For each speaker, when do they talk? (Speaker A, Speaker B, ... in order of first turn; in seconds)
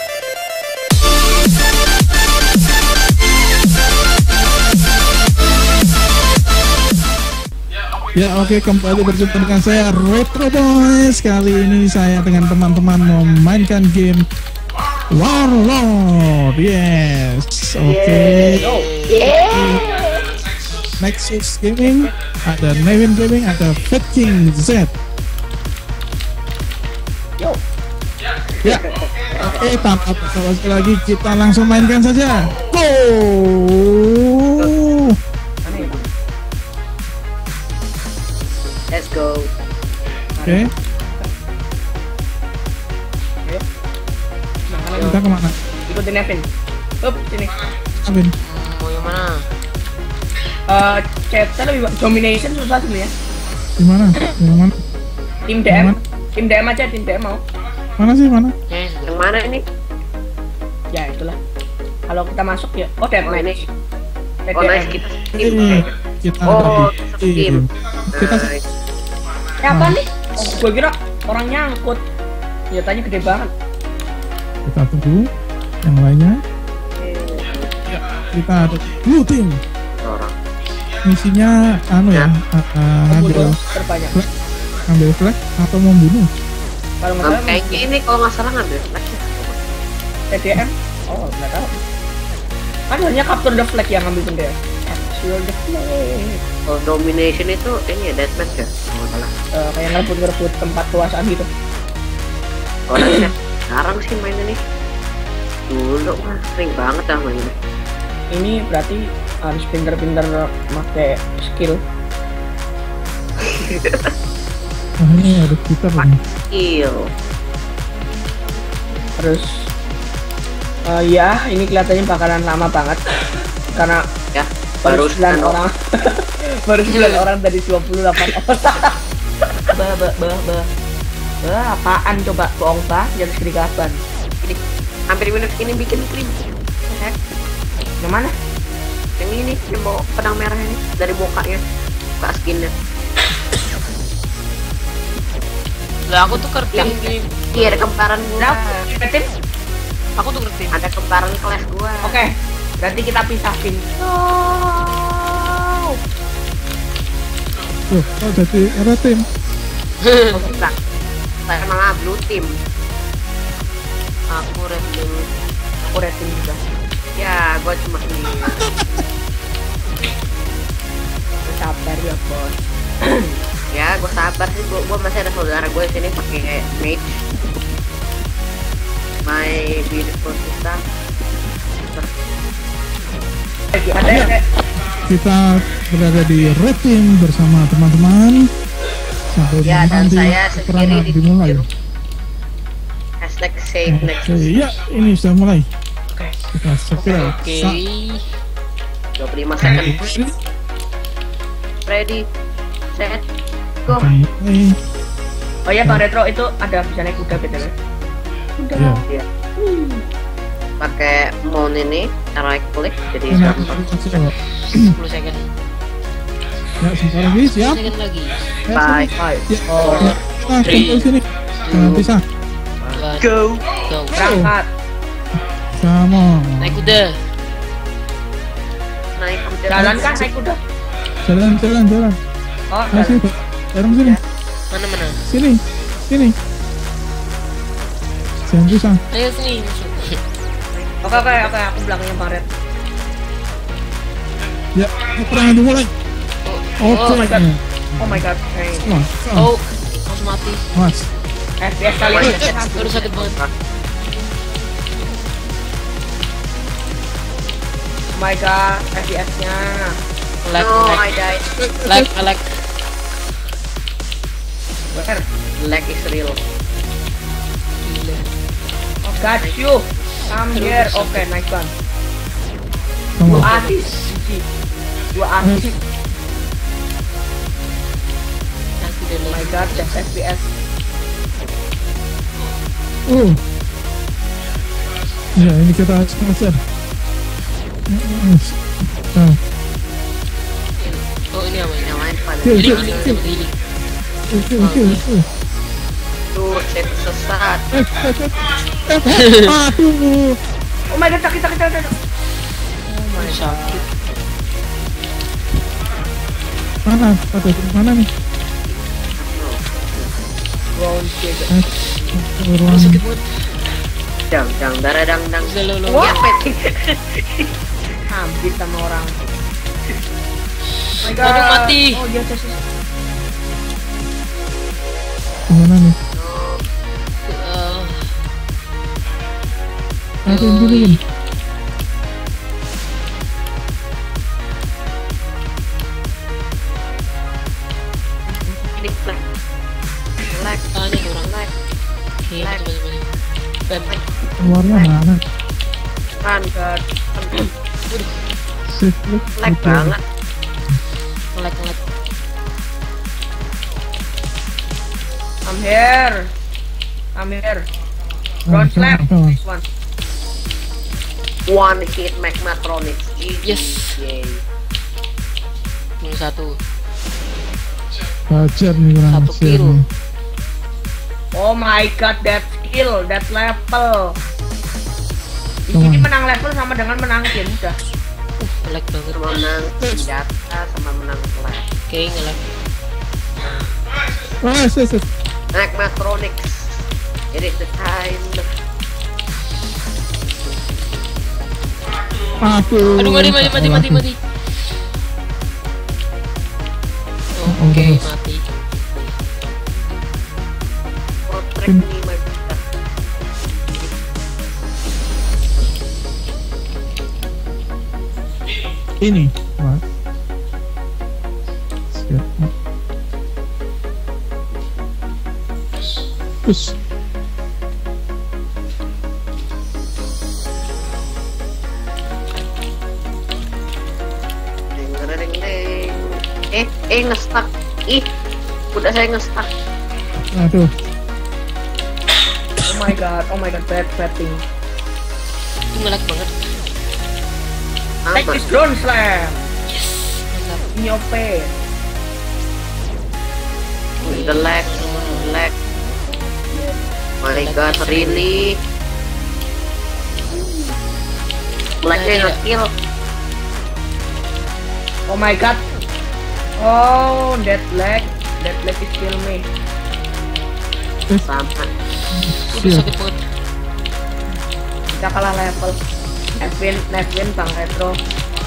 Speaker A: 8.2-14.2, 15.1-18.7, 19.5-19.8, 21.0-24.9, 29.4-35.1, 45.0-45.5, 48.0-48.3, 53.8-54.8, 55.7-56.0, 58.0-58.5, 65.3-68.4, 69.7-70.0, 74.7-75.3, 75.8-76.4, 77.9-79.6, 81.1-83.5, 84.9-86.3, 115.0-116.2, 157.9-159.2, 168.4-168.7, 184.1-184.3, 185.1-188.4, 189.3-191.6, 193.9-195.7, 196.5-197.8, 199.6-200.3, 203.9-204.8, 208.8-209.0, 213.3-214.3, 216.8-217.8, 218.7-222.2, 224.2-224.5, 225.8-226.9, 229.7-230.3, 231.2-232.2, 232.9-234.2, 235.3-236.3, 238.5-239.0, 244.8-245.9, 246.8-248.2, 248.8-249.5, 250.8-251.1, 261.6-262.1, 273.2-273.5, 283.1-283.4, 285.4-286.6, 287.9-288.6, 292.4-293.2, 294.3-295.2, 297.7-300.4, 306.9-308.1, 311.5-313.0, 325.5-325.9, 330.3-331.0, 344.4-345.2, 348.7-349.9, 358.5-359.4, 368.3-369.8, 375.7-376.1, 384.4-385.1, 392.4-394.0, 397.5-398.1, 409.0-409.8, 411.9-412.5, 416.4-416.8, 430.3-430.7, 462.1-462.9
Speaker B: 17.8-20.0, 28.7-29.6, 34.6-34.8, 35.7-36.0, 38.9-39.5, 59.1-59.6, 63.2-63.6, 64.5-65.9, 66.5-68.6, 77.0-77.7, 80.0-80.3, 87.2-89.6, 96.7-99.3, 102.9-104.6, 105.7-107.5, 113.4-114.1, 116.0-117.0, 124.3-125.6, 135.1-137.2, 139.2-141.6, 142.2-142.7, 146.7-148.8, 150.7-152.2, 160.3-160.7, 161.5-162.5, 167.2-168.6, 173.7-177.2, 179.3-180.8, 189.6-191.7, 193.2-194.6, 199.2-200.0, 201.9-202.2, 202.9-203.2, 210.8-214.2, 218.7-219.1, 219.8-220.1, 222.8-223.7, 229.2-230.3, 233.9-234.2, 240.7-241.5, 252.1-252.6, 260.6-261.5, 265.6-266.4, 269.3-269.6, 291.8-293.4, 296.3-297.6, 308.7-310.1, 314.3-317.5, 326.2-326.6, 338.8-339.2, 340.3-341.5, 342.4-342.6, 344.6-344.9, 346.2-346.5, 349.4-350.0, 361.5-364.4, 379.1-381.6, 385.5-386.8, 387.3-388.4, 401.3-402.6, 424.8-428.1, 428.8-429.5, 438.1-438.4, 444.0-445.5, 447.2-448.6, 451.8-452.7, 461.3-461.7
Speaker C: 18.6-18.9, 35.6-36.0, 40.4-41.3, 44.7-45.2, 45.9-46.5, 47.0-47.5, 50.7-53.1, 55.5-57.4, 60.9-61.4, 62.1-63.7, 64.5-65.0, 69.6-72.0, 72.7-73.5, 83.1-84.2, 87.0-87.9, 90.3-91.7, 92.9-96.4, 99.6-101.5, 103.0-103.3, 108.3-111.8, 119.2-119.5, 120.9-123.0, 124.8-128.9, 129.7-130.7, 131.4-134.0, 138.0-138.3, 148.4-149.2, 152.0-155.5, 165.9-166.6, 171.5-172.6, 183.7-184.4, 205.7-207.7, 208.6-209.0, 209.6-210.0, 219.2-220.2, 224.1-224.7, 229.7-230.6, 232.7-233.2, 241.0-242.5, 247.2-248.9, 251.6-253.3, 258.1-259.9, 264.9-265.2, 269.1-271.7, 273.3-274.4, 275.1-275.6, 279.3-280.4, 300.9-301.9, 302.9-303.8, 310.8-312.1, 318.1-319.1, 321.0-322.6, 346.6-346.8, 355.5-356.3, 357.2-357.7, 358.5-359.6, 371.4-374.1, 375.7-377.8, 432.7-434.4, 438.1-439.4, 440.8-441.5, 455.1-455.6, 456.6-459.4, 464.9-465.8, 466.4-468.0
Speaker D: 18.6-19.4, 48.4-49.4, 58.7-59.2, 126.9-127.2, 146.1-147.9, 150.2-150.8, 160.1-160.4, 164.3-165.1, 197.0-198.2, 214.6-215.4, 217.5-218.4, 219.8-221.1, 221.7-222.1, 222.9-223.3, 223.9-224.2, 226.6-227.1, 234.7-235.2, 239.1-240.2, 246.5-247.3, 249.4-250.7, 252.7-253.4, 260.4-261.2, 261.8-262.4, 267.8-268.2, 270.5-271.3, 273.3-274.1, 278.8-279.9, 290.8-293.5, 294.6-295.1, 303.2-303.8, 312.7-313.2, 315.4-316.2, 321.2-322.0, 327.3-328.0, 330.3-331.0, 340.8-341.3, 342.3-343.1, 343.7-344.0, 351.4-351.8, 363.4-363.9, 366.0-366.6, 369.1-369.8, 378.4-379.4, 381.9-382.4, 392.9-394.2, 397.4-398.4, 435.7-436.3, 439.7-440.7, 444.1-445.2, 447.3-448.3, 451.9-452.4, 462.5-463.2